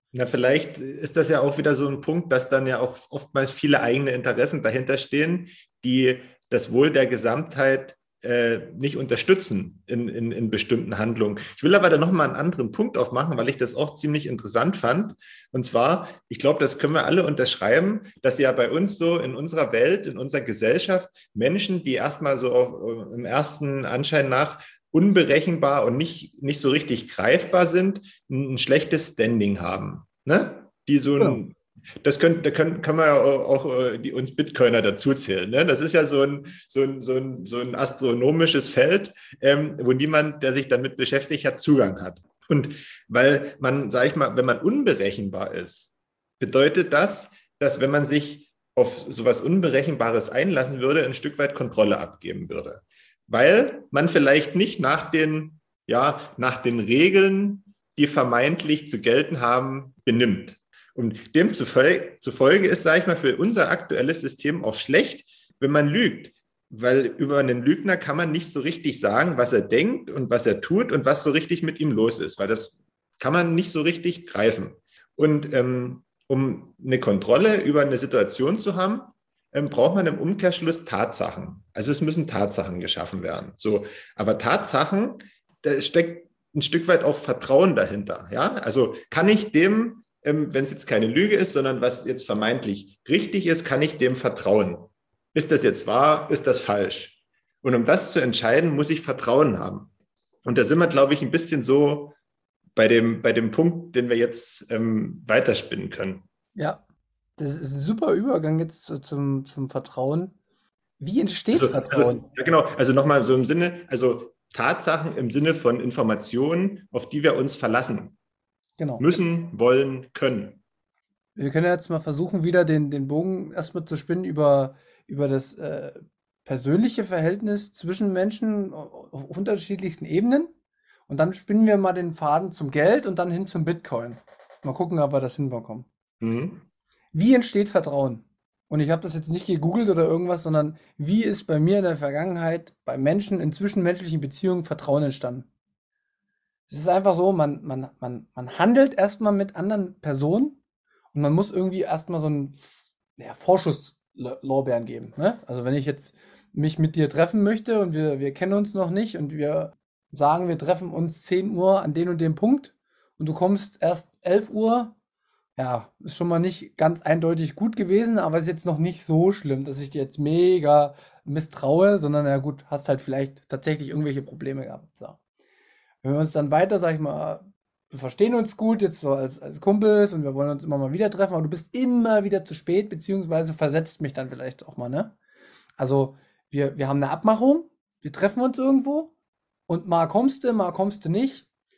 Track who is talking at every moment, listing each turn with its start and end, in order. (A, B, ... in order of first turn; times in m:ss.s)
0:00.1-1:39.9 A
1:40.4-1:42.2 A
1:42.8-1:46.2 A
1:46.5-1:46.8 B
1:47.4-1:50.3 B
1:51.0-1:52.3 B
1:51.5-1:58.2 A
1:58.8-1:59.2 B
1:59.0-2:00.6 A
2:01.4-2:10.5 B
2:11.1-2:15.9 B
2:16.2-2:16.6 A
2:17.1-2:25.5 B
2:26.7-2:30.6 B
2:31.1-2:44.9 B
2:45.6-2:55.2 B
2:56.0-3:05.2 B
3:05.8-3:09.1 B
3:09.7-3:11.5 B